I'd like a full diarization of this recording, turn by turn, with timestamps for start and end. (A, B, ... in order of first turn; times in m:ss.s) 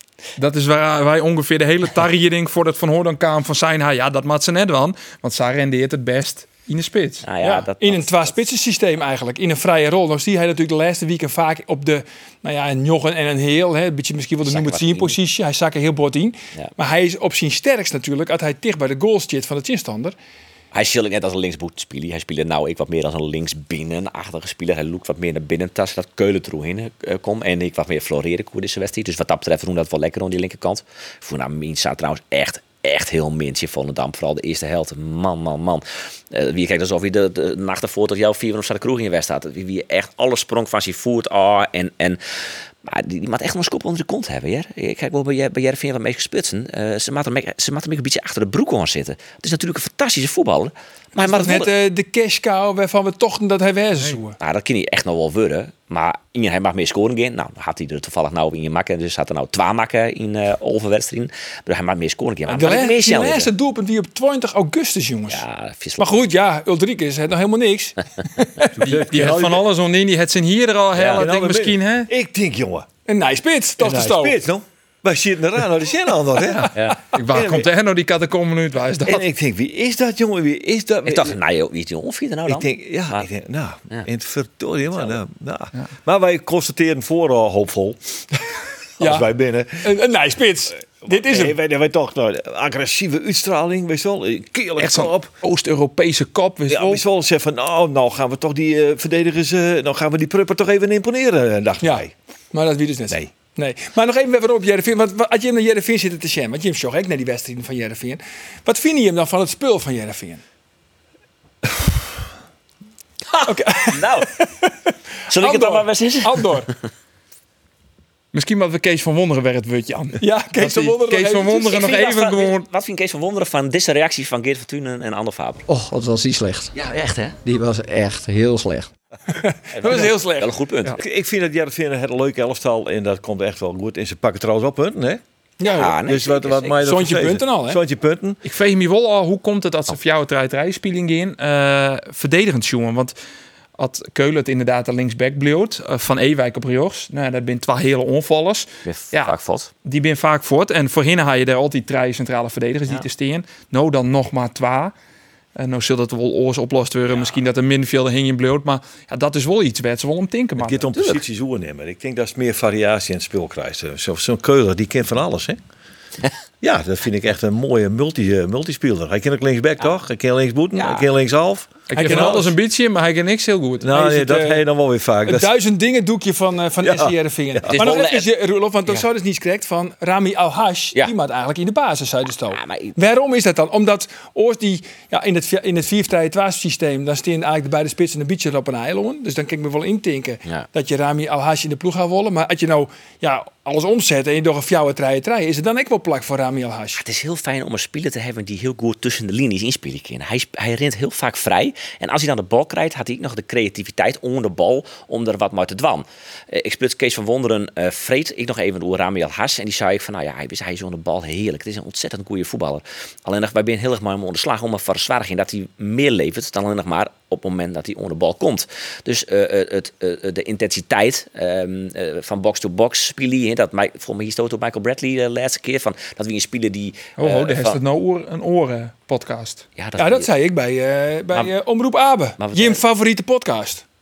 0:00.4-0:07.2 A
0:07.2-0:08.3 B
0:07.4-0:20.1 C
0:14.4-0:15.2 B
0:20.7-0:42.2 B
0:42.8-0:51.7 B
0:51.2-0:54.4 C
0:54.4-1:03.5 B
1:02.5-1:05.4 C
1:05.3-1:06.2 B
1:06.0-1:08.8 C
1:08.8-1:09.6 D
1:08.8-1:12.1 A
1:10.9-1:12.9 D
1:13.1-1:14.4 C
1:13.8-1:17.7 D
1:17.1-1:19.2 A
1:19.0-1:21.4 D
1:21.0-1:23.2 B
1:22.5-1:28.0 D
1:29.0-1:30.0 D
1:29.0-1:29.3 C
1:29.8-1:31.6 C
1:31.0-1:35.3 D
1:34.8-1:37.0 A
1:36.7-1:42.1 D
1:41.8-1:50.4 C
1:53.3-1:54.3 B
1:53.5-1:54.7 C
1:55.3-1:56.6 B
1:55.3-1:56.7 C
1:58.3-2:02.7 A
2:00.2-2:01.7 C
2:01.6-2:05.6 B
2:05.7-2:06.7 E
2:06.7-2:07.4 B
2:07.4-2:08.9 E
2:09.3-2:10.5 C
2:09.7-2:11.0 B
2:11.0-2:15.2 D
2:15.6-2:16.0 C
2:15.7-2:16.8 B
2:16.0-2:18.4 D
2:16.8-2:17.8 C
2:18.4-2:23.1 A
2:23.8-2:34.9 A
2:28.8-2:29.7 B
2:35.6-2:41.0 A
2:37.1-2:37.4 B
2:40.6-2:45.6 D
2:46.6-2:52.5 D
2:50.7-2:51.1 B
2:51.9-2:53.9 A
2:51.9-2:52.5 C
2:53.8-2:55.5 D
2:53.9-2:54.6 C
2:55.2-3:17.0 C
2:56.8-2:57.7 D
2:57.6-2:58.3 B
3:02.5-3:03.0 B
3:17.0-3:47.8 B
3:47.2-3:49.6 A
3:49.8-3:50.3 B
3:50.0-3:53.8 C
3:52.4-3:52.8 B